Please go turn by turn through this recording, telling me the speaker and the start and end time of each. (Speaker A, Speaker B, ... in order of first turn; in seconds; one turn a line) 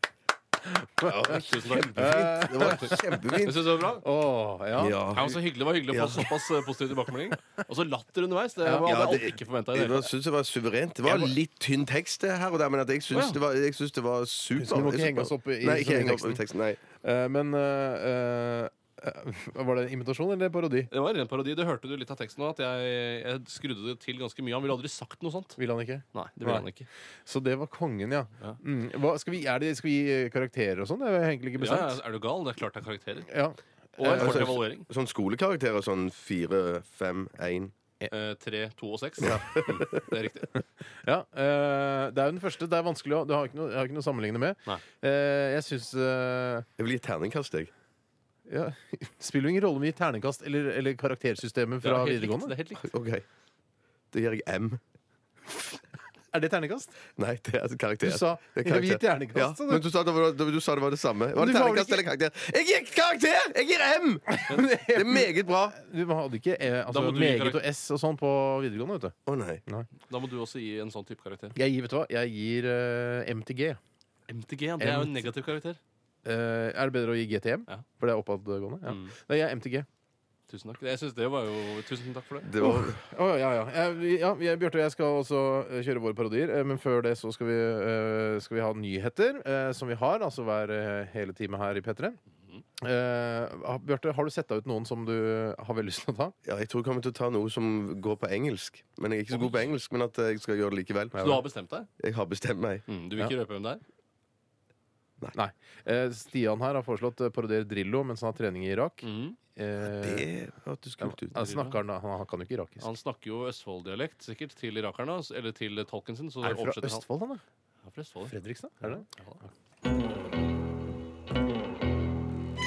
Speaker A: 0.8-3.4
Speaker B: 1.0-3.6
Speaker C: 1.2-4.0
Speaker A: 4.0-5.1
Speaker B: 4.8-5.4
Speaker C: 5.1-10.1
Speaker B: 5.9-6.3
Speaker A: 8.6-8.9
Speaker B: 8.8-16.8
Speaker C: 11.1-11.3
Speaker C: 13.1-13.4
Speaker A: 14.6-16.4
Speaker A: 17.0-20.9
Speaker C: 20.9-25.6
Speaker A: 25.6-26.7
Speaker C: 26.1-26.9
Speaker A: 27.3-32.0
Speaker C: 31.6-33.3
Speaker A: 33.3-34.5
Speaker C: 34.0-34.9
Speaker B: 34.1-37.7
Speaker C: 38.1-40.6
Speaker B: 39.2-40.1
Speaker A: 41.0-46.7
Speaker B: 46.8-47.7
Speaker A: 48.5-52.5
Speaker C: 51.8-52.9
Speaker B: 52.8-53.2
Speaker B: 54.1-54.8
Speaker A: 56.3-56.9
Speaker B: 57.2-65.8
Speaker A: 58.0-59.8
Speaker A: 61.4-62.0
Speaker A: 64.3-69.2
Speaker C: 66.9-67.7
Speaker B: 69.3-69.6
Speaker C: 70.1-71.5
Speaker A: 71.5-73.8
Speaker C: 74.3-75.8
Speaker A: 74.8-75.3
Speaker A: 76.2-79.9
Speaker C: 78.9-79.2
Speaker C: 80.5-82.5
Speaker B: 82.5-83.0
Speaker A: 82.6-92.2
Speaker A: 92.8-96.3
Speaker B: 96.5-101.3
Speaker C: 99.3-99.7
Speaker A: 101.2-101.4
Speaker C: 101.2-101.9
Speaker B: 102.0-102.9
Speaker C: 102.9-103.8
Speaker A: 105.3-110.3
Speaker C: 109.0-109.4
Speaker B: 109.8-111.4
Speaker A: 111.0-112.9
Speaker C: 111.4-111.8
Speaker C: 112.8-117.0
Speaker A: 116.4-117.4
Speaker C: 117.9-119.4
Speaker A: 118.3-119.0